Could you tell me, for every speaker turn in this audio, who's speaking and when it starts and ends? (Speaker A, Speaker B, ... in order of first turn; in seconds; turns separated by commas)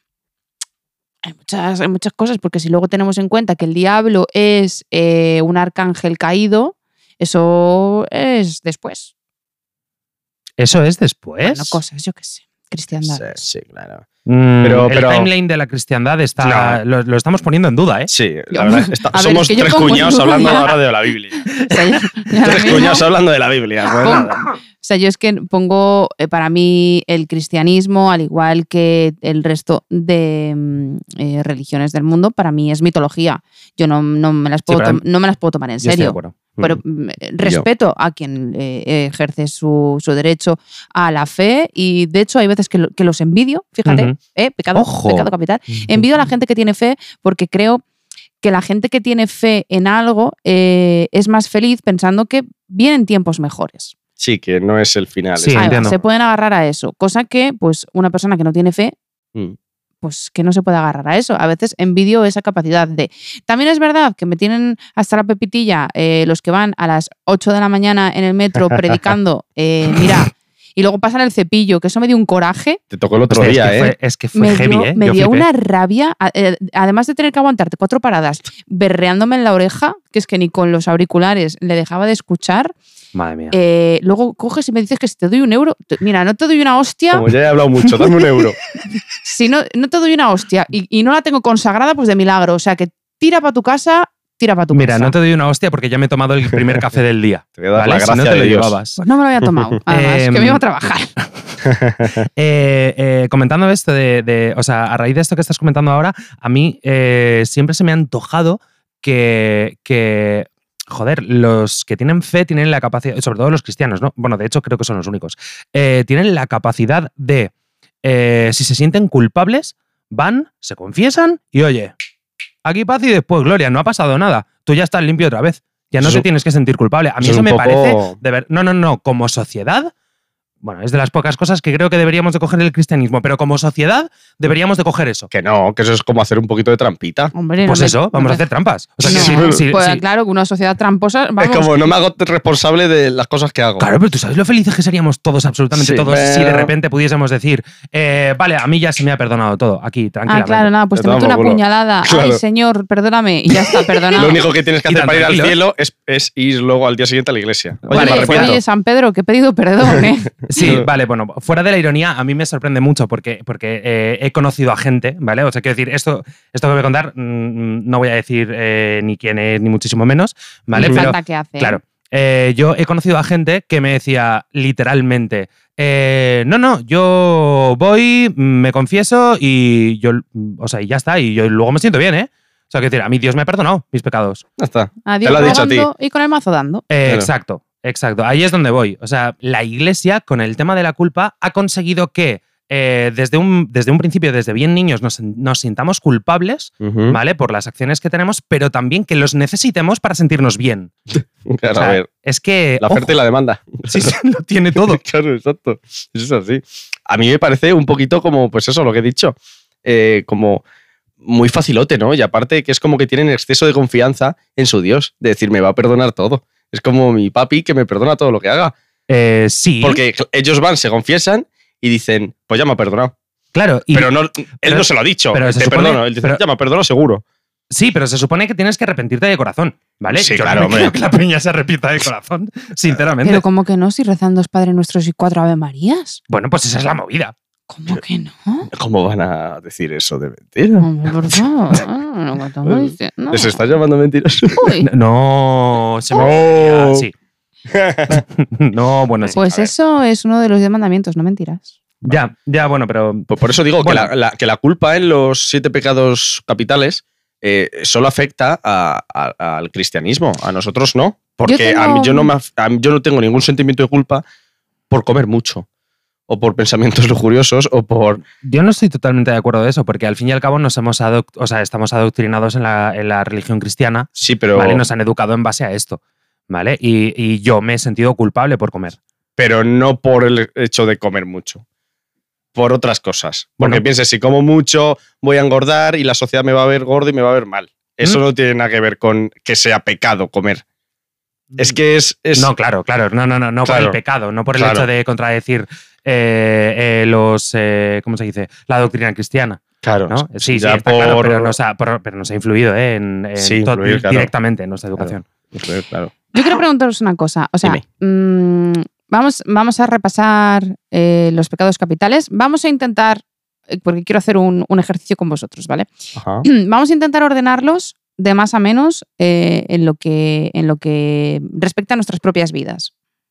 Speaker A: 1.2-9.1, Speaker B: 10.6-11.8, Speaker A: 11.4-13.2, Speaker C: 13.1-14.1, Speaker B: 14.3-18.1, Speaker C: 14.6-15.3, Speaker C: 16.4-16.8, Speaker C: 18.1-21.5, Speaker A: 18.5-20.8, Speaker A: 21.7-23.0, Speaker C: 22.4-24.4, Speaker A: 24.0-47.8, Speaker B: 34.7-35.0, Speaker B: 35.8-36.3, Speaker B: 43.9-44.2, Speaker B: 44.8-45.3, Speaker A: 48.4-54.0, Speaker C: 54.2-56.0, Speaker B: 55.4-56.0, Speaker A: 55.6-59.0, Speaker A: 60.0-72.8, Speaker C: 72.9-73.9, Speaker B: 73.3-75.5, Speaker A: 74.3-82.7, Speaker B: 83.2-83.6, Speaker A: 83.5-87.3, Speaker C: 87.1-88.6, Speaker A: 89.2-95.1, Speaker B: 94.7-99.0, Speaker C: 97.6-98.8, Speaker A: 99.0-101.1, Speaker B: 99.9-100.6, Speaker C: 101.6-102.3, Speaker B: 102.4-117.5, Speaker B: 118.0-121.9, Speaker B: 122.7-129.9, Speaker C: 127.2-128.2, Speaker B: 130.6-135.3, Speaker C: 135.3-137.3, Speaker A: 137.3-138.4, Speaker B: 137.7-140.0, Speaker C: 139.0-139.6, Speaker A: 139.1-141.9, Speaker C: 141.4-143.9, Speaker B: 143.8-150.7, Speaker C: 145.7-146.7, Speaker A: 150.3-154.4, Speaker C: 150.9-152.4, Speaker C: 153.7-158.6, Speaker B: 154.9-155.6, Speaker B: 157.9-158.6, Speaker A: 157.9-160.4, Speaker B: 160.5-184.4, Speaker C: 160.6-160.9, Speaker A: 170.7-171.8, Speaker C: 170.8-171.1, Speaker C: 184.6-185.9, Speaker A: 185.1-186.8, Speaker B: 186.9-200.9, Speaker C: 196.8-197.2, Speaker C: 201.4-202.1, Speaker B: 201.8-203.2, Speaker C: 202.8-204.1, Speaker B: 203.9-205.0, Speaker C: 204.8-210.6, Speaker C: 211.2-218.8, Speaker B: 219.1-220.0, Speaker C: 219.8-223.1, Speaker B: 223.5-226.4, Speaker C: 223.9-227.2, Speaker B: 227.7-233.4, Speaker C: 230.2-230.9, Speaker A: 233.2-236.2, Speaker B: 236.3-237.3, Speaker A: 237.7-238.7, Speaker C: 238.7-241.4, Speaker A: 240.8-243.6, Speaker C: 242.7-244.6, Speaker A: 244.5-244.9, Speaker B: 244.8-247.1, Speaker C: 246.1-247.1, Speaker C: 247.7-248.2, Speaker B: 248.1-249.4, Speaker C: 249.2-249.7, Speaker A: 249.4-251.8, Speaker B: 252.1-254.1, Speaker C: 253.3-264.2, Speaker A: 261.5-262.3, Speaker C: 264.9-265.7, Speaker C: 266.3-268.2, Speaker B: 268.4-276.0, Speaker C: 274.2-274.8, Speaker B: 276.5-279.0, Speaker C: 279.4-281.6, Speaker C: 282.5-290.6, Speaker C: 291.6-292.5, Speaker B: 292.4-305.2, Speaker C: 293.6-294.0, Speaker C: 294.6-294.9, Speaker C: 299.8-301.5, Speaker C: 303.4-304.3, Speaker C: 305.0-306.1, Speaker A: 306.3-315.9, Speaker C: 316.1-316.5, Speaker A: 316.4-322.9